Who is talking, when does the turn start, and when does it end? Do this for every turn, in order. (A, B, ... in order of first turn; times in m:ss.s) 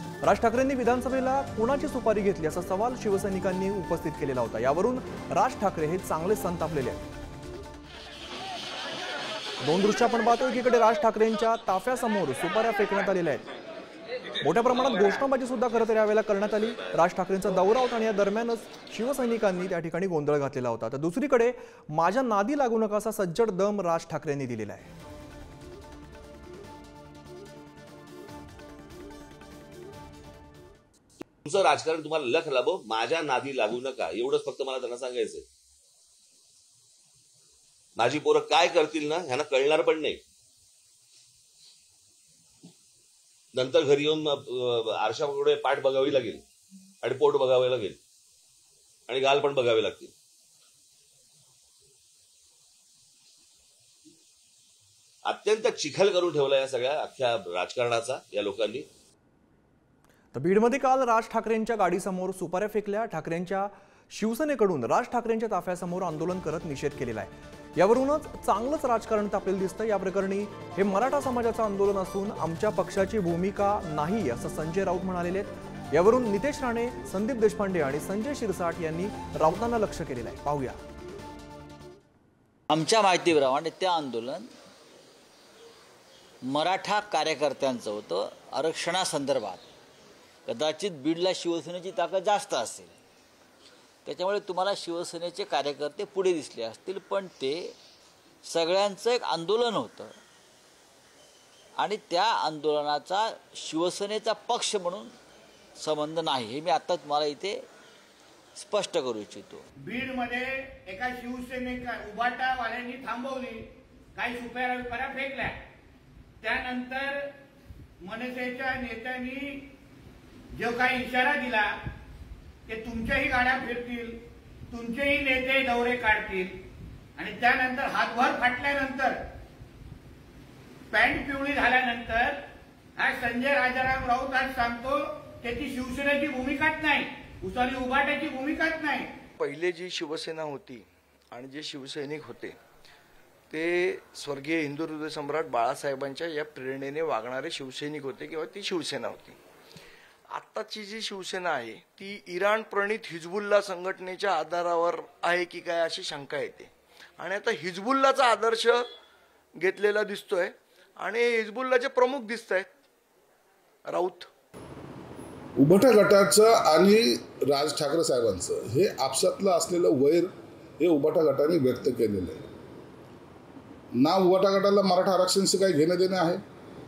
0:00.2-0:07.0 A
0:09.6-0:13.4 A
0:14.4-0:24.9 A
0:31.4-0:35.4 B
0:38.0-0:40.2 B
0:43.5-0:46.4 B
0:47.0-0:48.0 B
0:49.1-0:50.1 B
0:55.2-0:58.9 B
1:00.3-1:20.8 A
1:22.7-1:24.5 C
1:26.4-1:29.6 C
1:30.4-1:32.9 C
1:34.0-1:37.7 C
1:38.4-1:40.1 C
1:41.8-1:45.1 C
1:45.8-1:47.6 C
1:48.6-1:49.6 C
1:49.8-1:53.6 D
1:54.1-1:55.5 D
1:56.4-1:57.3 D
1:58.0-1:59.7 D
2:00.5-2:01.8 D
2:02.7-2:04.2 D
2:04.7-2:06.6 D
2:07.2-2:09.2 D
2:10.9-2:12.4 D
2:13.0-2:19.1 D
2:19.4-2:22.6 E
2:23.5-2:29.4 E
2:30.3-2:38.9 E
2:39.6-2:42.7 E
2:43.8-2:44.3 E
2:45.6-2:52.4 F
2:54.0-2:56.4 F